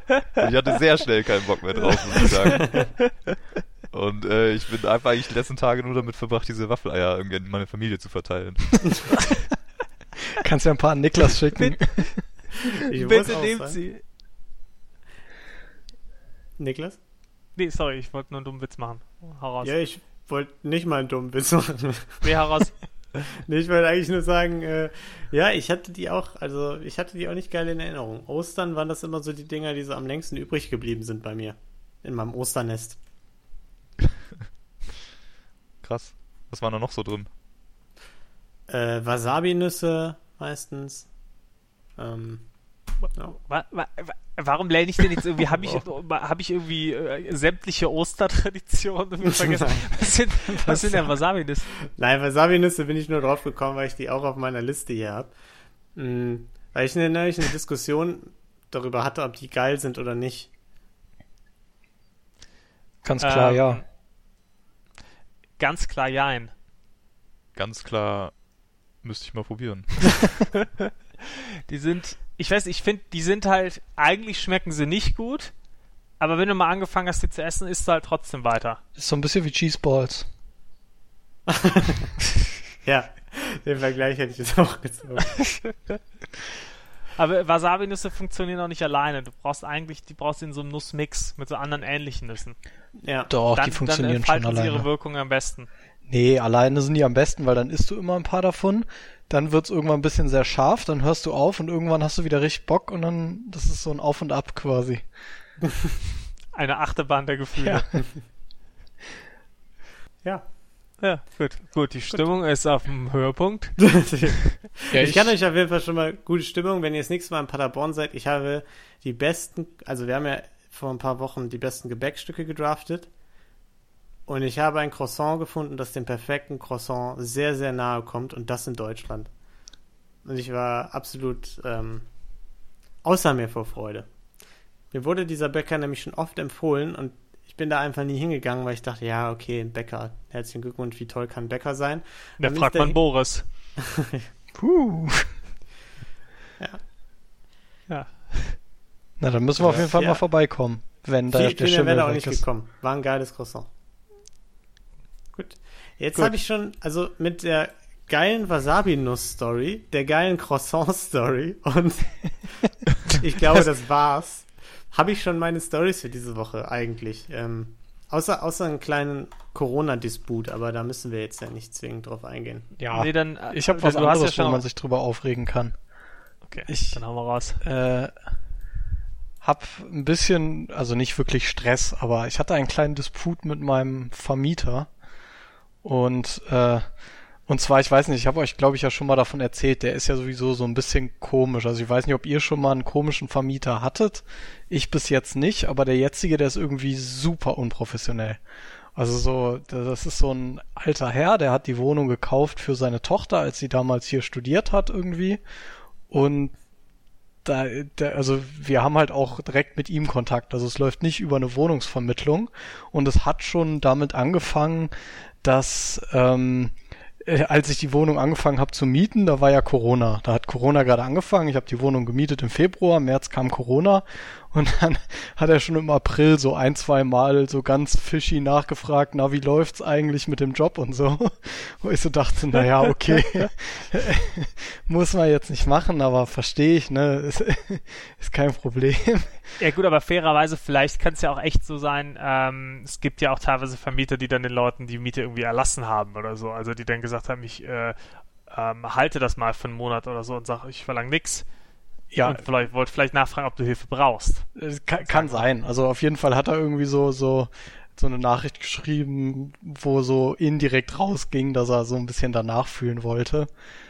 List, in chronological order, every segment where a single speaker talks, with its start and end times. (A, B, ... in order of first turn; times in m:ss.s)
0:00.4-0:03.2 A
0:03.9-0:09.2 A
0:10.4-0:12.2 B
0:11.6-0:12.4 C
0:12.8-0:13.8 D
0:12.9-0:14.0 C
0:16.6-0:17.0 D
0:17.6-0:19.7 C
0:19.6-0:22.2 D
0:22.2-0:22.8 C
0:23.3-0:33.0 D
0:35.8-0:37.3 A
0:38.7-0:41.1 D
0:42.0-0:42.5 D
0:43.3-0:51.8 C
0:49.5-0:49.9 D
0:50.6-0:51.0 B
0:52.0-0:55.3 D
0:56.0-1:00.5 D
1:03.0-1:03.8 B
1:03.2-1:03.8 C
1:05.6-1:06.5 C
1:07.6-1:08.4 A
1:09.0-1:10.4 A
1:11.7-1:15.5 C
1:16.2-1:18.8 C
1:19.0-1:20.3 B
1:21.5-1:22.1 D
1:22.8-1:25.5 D
1:27.2-1:32.6 C
1:33.0-1:33.3 D
1:33.3-1:34.9 B
1:33.5-1:35.7 C
1:36.1-1:45.1 B
1:46.5-1:48.1 C
1:47.6-1:47.9 B
1:51.0-1:54.0 C
1:53.8-2:03.1 D
1:54.9-1:55.3 B
2:04.3-2:09.3 D
2:10.2-2:12.1 D
2:13.0-2:14.1 D
2:14.9-2:23.3 D
2:22.4-2:23.5 C
2:23.8-2:24.2 D
2:24.6-2:25.4 B
2:27.9-2:28.6 C
2:29.2-2:32.4 B
2:29.6-2:30.2 D
2:31.3-2:33.7 D
2:35.3-2:52.7 D
2:52.8-2:55.7 B
2:52.9-2:54.6 C
2:56.5-2:57.6 C
2:56.7-2:57.0 B
2:57.6-2:58.1 B
2:59.4-3:04.9 B
3:05.8-3:18.4 B
3:19.0-3:25.4 B
3:26.1-3:26.5 B
3:27.4-3:59.4 B
3:59.6-4:08.0 C
4:08.5-4:11.4 C
4:12.1-4:12.4 B
4:12.2-4:14.5 C
4:14.6-4:23.5 B
4:15.0-4:15.4 C